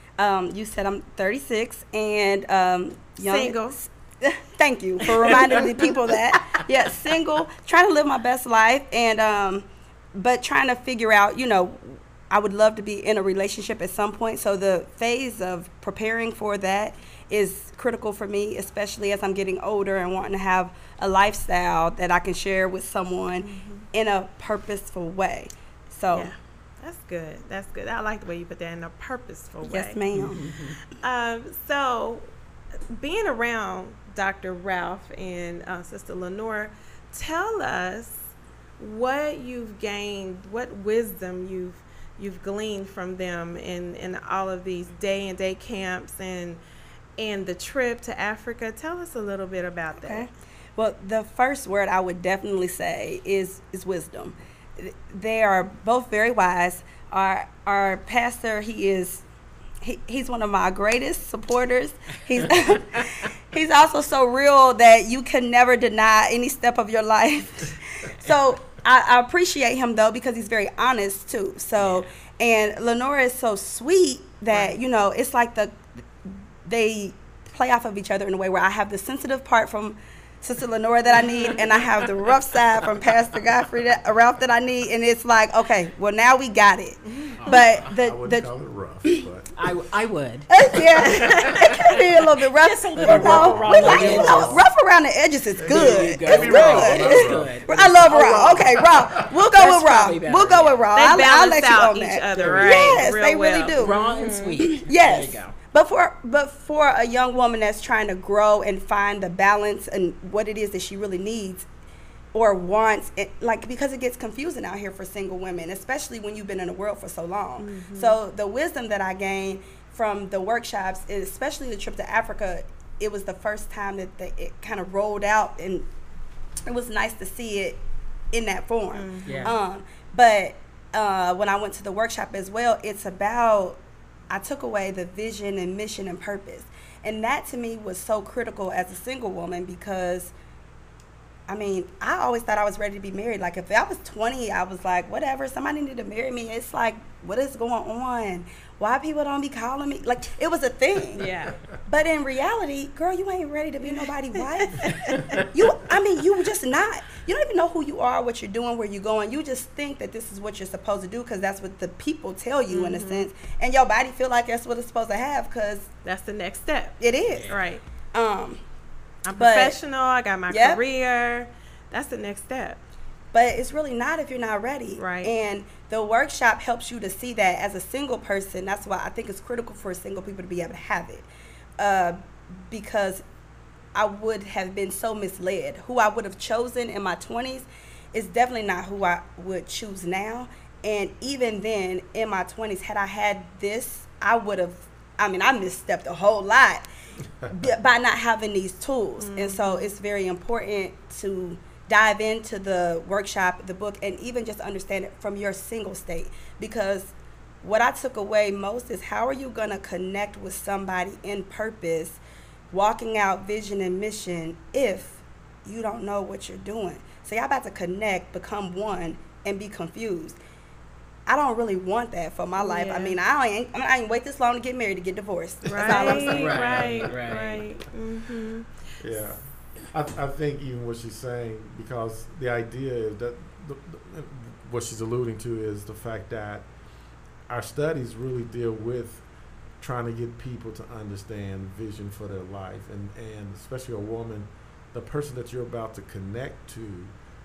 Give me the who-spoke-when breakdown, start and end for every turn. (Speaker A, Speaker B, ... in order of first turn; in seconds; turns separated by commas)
Speaker A: 0.2-26.4, Speaker B: 3.2-3.8, Speaker B: 5.2-5.7, Speaker B: 23.4-23.8, Speaker B: 26.1-30.0, Speaker A: 29.6-30.4, Speaker C: 30.1-30.8, Speaker B: 31.0-32.3, Speaker B: 32.9-46.6, Speaker B: 47.2-50.3, Speaker A: 50.0-59.2, Speaker A: 59.8-75.9, Speaker A: 76.7-88.5, Speaker B: 81.1-81.7, Speaker B: 87.1-87.4, Speaker C: 87.4-87.8, Speaker D: 87.8-89.5, Speaker C: 89.5-91.9, Speaker A: 90.5-104.0, Speaker D: 91.3-91.7, Speaker C: 92.5-94.6, Speaker D: 93.0-94.7, Speaker D: 95.6-97.5, Speaker C: 95.7-100.9, Speaker B: 101.0-104.7, Speaker C: 102.3-103.0, Speaker C: 103.8-105.5, Speaker A: 104.6-111.7, Speaker A: 112.3-125.9, Speaker B: 117.6-118.2, Speaker A: 126.7-127.8, Speaker A: 128.3-140.3, Speaker B: 128.9-129.6, Speaker C: 129.2-129.6, Speaker A: 141.5-151.3, Speaker B: 151.1-151.6, Speaker A: 151.9-165.9, Speaker B: 154.6-155.2, Speaker C: 155.1-155.5, Speaker B: 162.7-163.3, Speaker B: 166.1-167.8, Speaker A: 167.0-167.6, Speaker C: 167.3-167.6, Speaker A: 168.1-168.6, Speaker B: 169.3-172.8, Speaker A: 169.4-169.8, Speaker A: 170.5-170.8, Speaker A: 173.3-181.3, Speaker B: 175.0-175.3, Speaker A: 181.8-183.2, Speaker A: 183.9-196.8, Speaker A: 197.5-212.2, Speaker B: 199.2-199.9, Speaker A: 212.7-220.4, Speaker A: 221.3-226.9, Speaker B: 222.6-223.2, Speaker B: 225.7-228.7, Speaker C: 225.8-227.7, Speaker D: 226.3-227.2, Speaker D: 229.0-236.7, Speaker D: 237.5-239.2, Speaker D: 239.8-247.1